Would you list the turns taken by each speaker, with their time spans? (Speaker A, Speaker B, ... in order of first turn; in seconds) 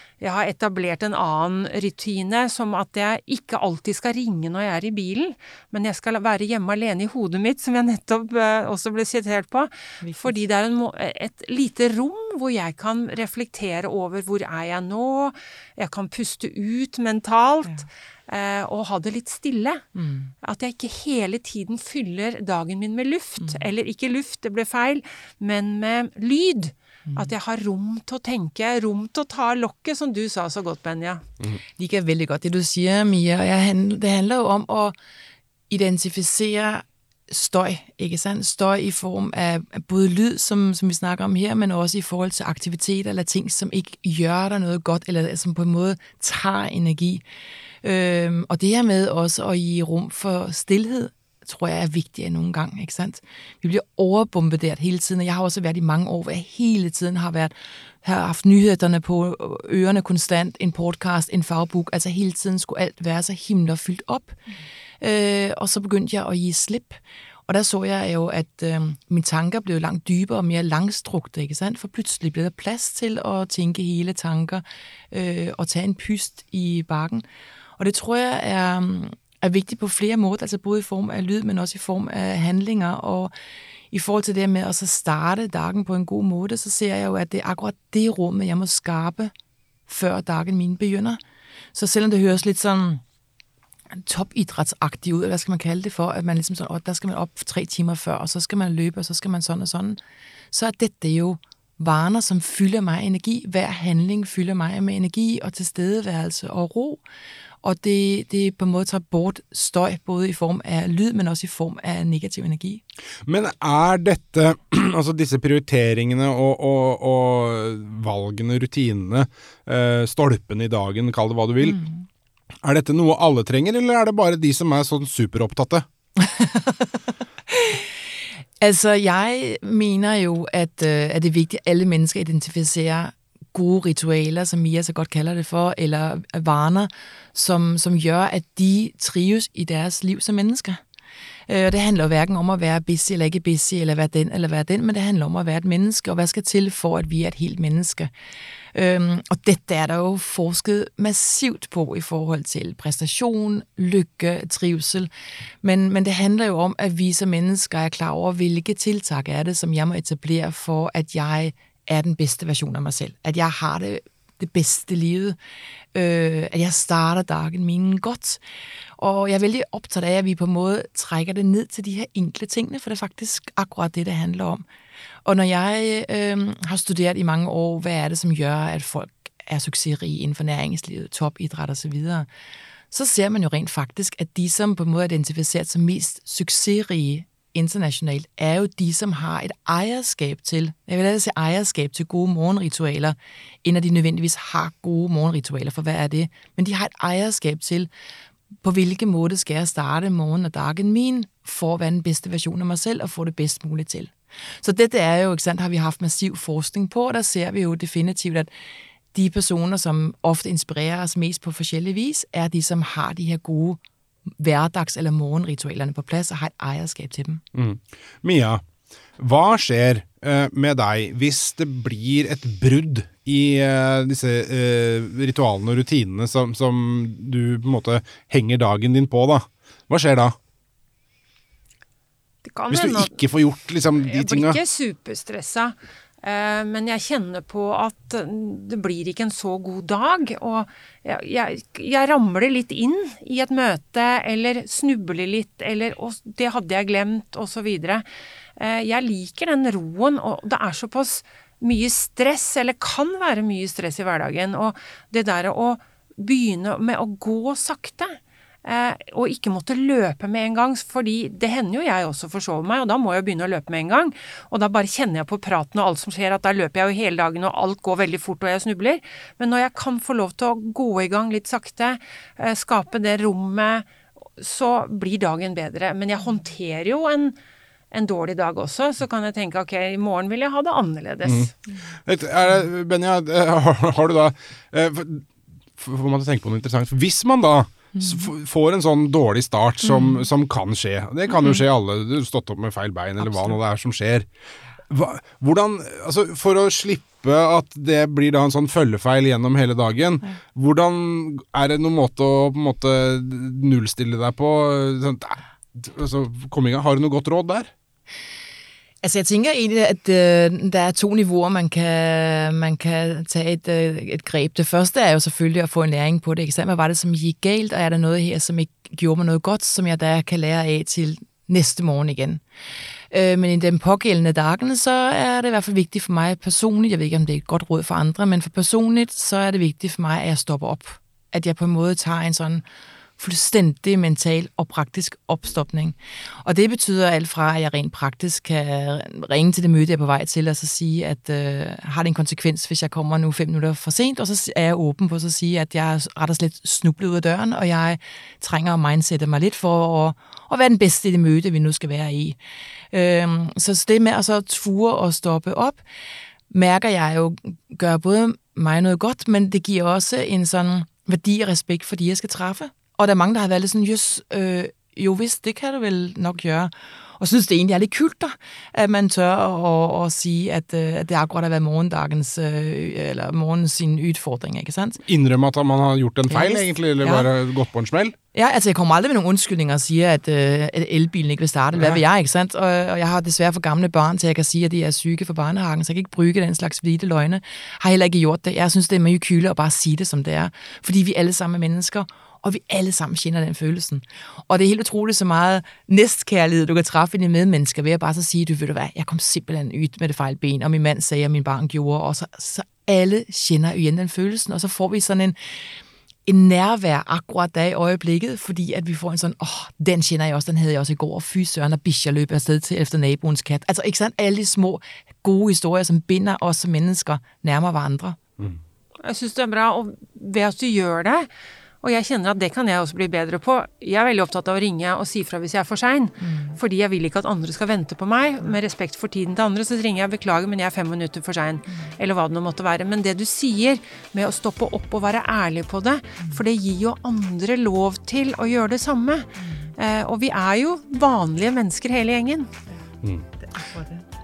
Speaker A: 0.2-19.8, 20.4-31.2, 232.4-233.2, 234.0-248.1, 248.6-273.9, 274.4-277.4, 277.9-281.5, 419.0-421.3, 421.8-442.5
Speaker B: 10.0-10.4, 19.9-20.3, 31.8-34.9, 35.7-47.2, 47.8-64.3, 65.0-77.2, 77.8-83.3, 83.9-89.3, 89.9-91.2, 91.7-93.0, 93.9-100.0, 100.5-107.0, 107.6-112.8, 121.7-121.9, 126.2-127.9, 128.6-140.8, 141.5-148.1, 148.7-155.1, 155.6-165.4, 165.9-168.4, 169.0-174.6, 175.2-182.3, 182.9-197.9, 198.6-208.5, 209.1-217.4, 289.9-290.2, 309.0-322.4, 323.1-332.6, 333.2-352.4, 352.9-355.8, 356.5-375.0, 376.3-377.3, 378.3-405.4, 406.2-418.2, 426.2-426.6, 439.4-439.7, 443.4-444.0
Speaker C: 113.3-121.8, 122.6-125.8, 217.5-218.6, 219.2-230.3, 232.7-234.6, 281.2-281.5, 282.1-294.2, 294.9-307.7, 375.1-378.1